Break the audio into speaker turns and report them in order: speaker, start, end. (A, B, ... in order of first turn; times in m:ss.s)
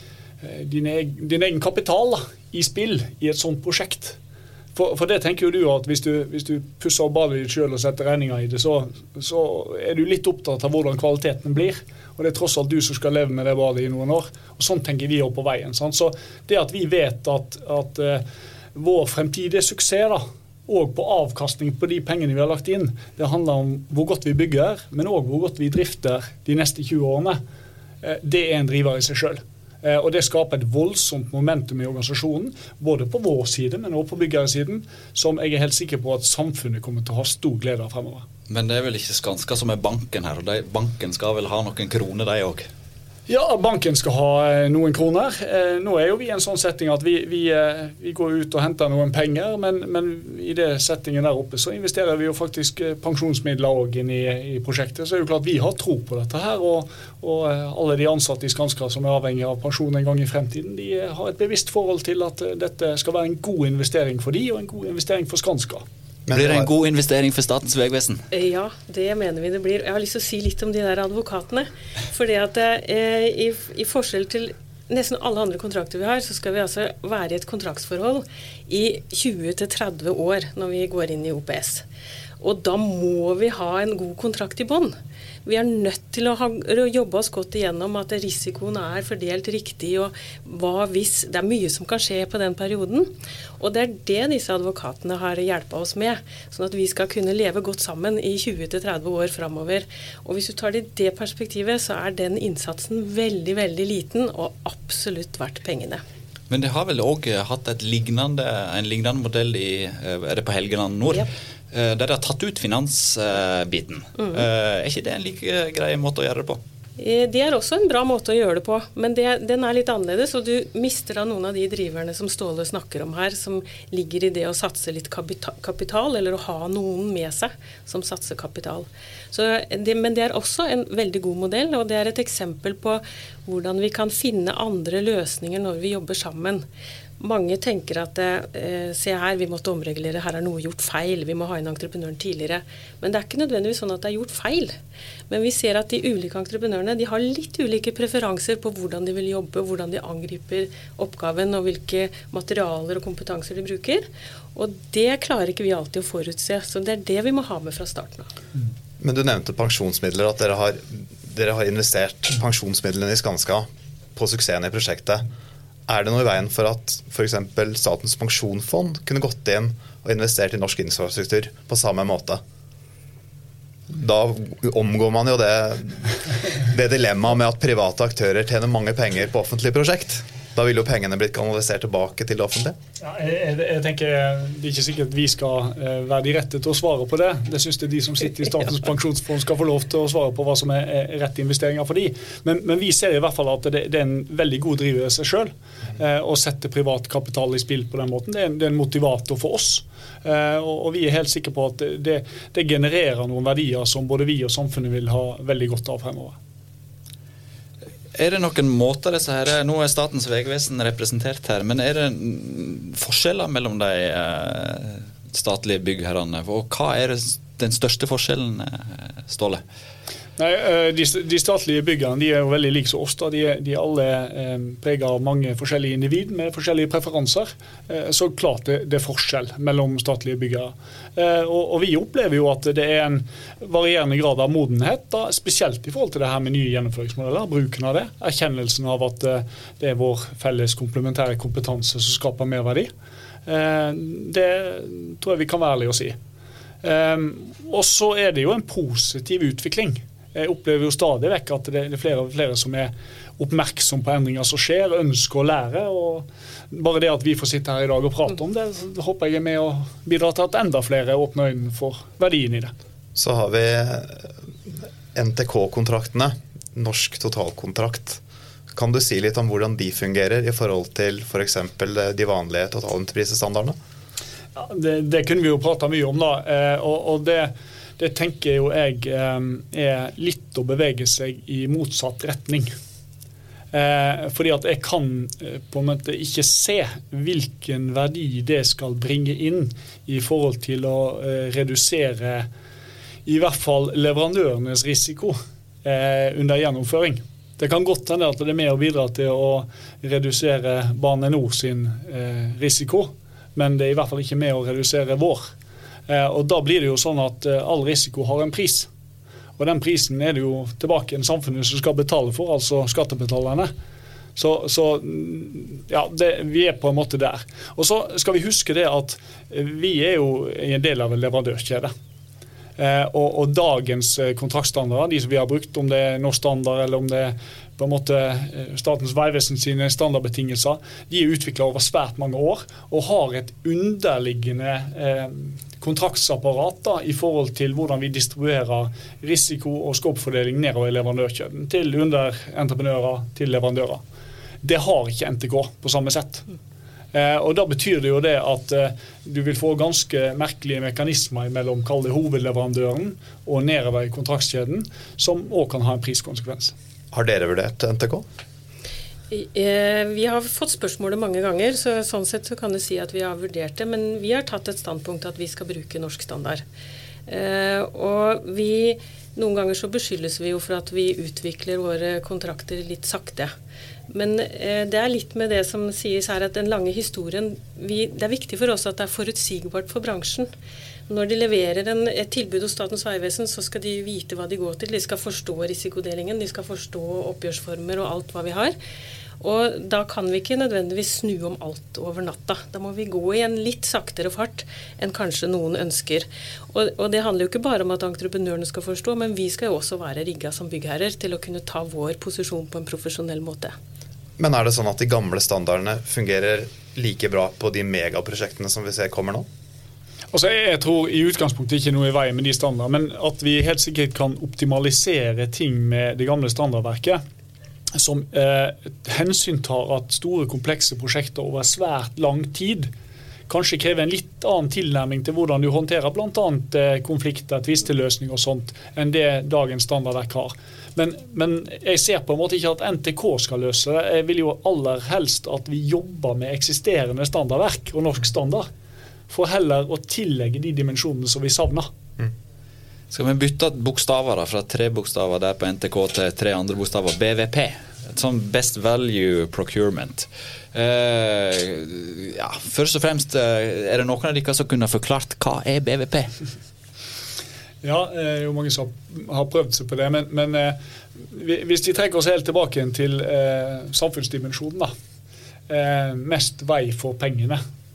0:00.4-0:04.2 A
0:04.8-0:18.2 A
0:18.8-0:27.4 A
0:28.0-0:38.3 A
0:38.5-0:42.7 B
0:43.3-1:05.8 A
1:06.3-1:06.7 C
1:06.3-1:08.2 B
1:08.3-1:21.8 D
1:22.4-1:46.0 D
1:46.5-1:56.6 B
1:57.0-2:16.6 D
2:17.2-2:24.8 D
2:25.3-2:38.3 D
2:39.0-2:45.3 C
2:45.9-2:52.4 C
2:53.9-3:02.8 C
3:03.0-3:26.4 A
3:28.2-3:39.6 B
3:40.4-4:02.9 A
4:03.5-4:06.2 A
4:06.8-4:22.7 A
4:23.2-4:24.3 C
4:25.1-4:28.2 C
4:28.7-4:33.8 C
4:34.6-4:42.7 A
4:43.7-4:52.5 A
4:53.3-5:05.5 A
5:06.1-5:08.9 A
5:09.6-5:13.7 A
5:14.4-5:21.9 A
5:22.8-5:44.0 A
5:44.6-5:46.4 A
5:47.1-5:56.8 A
5:57.1-5:58.2 C
5:59.3-6:06.6 D
6:07.3-6:13.5 D
6:14.1-6:20.5 D
6:21.1-6:28.8 D
6:29.4-6:43.7 D
6:44.4-6:49.5 C
6:50.3-6:57.2 A
6:58.0-7:02.9 A
7:03.5-7:18.7 A
7:19.3-7:21.9 A
7:23.1-7:36.3 B
7:37.8-7:44.9 A
7:45.7-7:47.6 A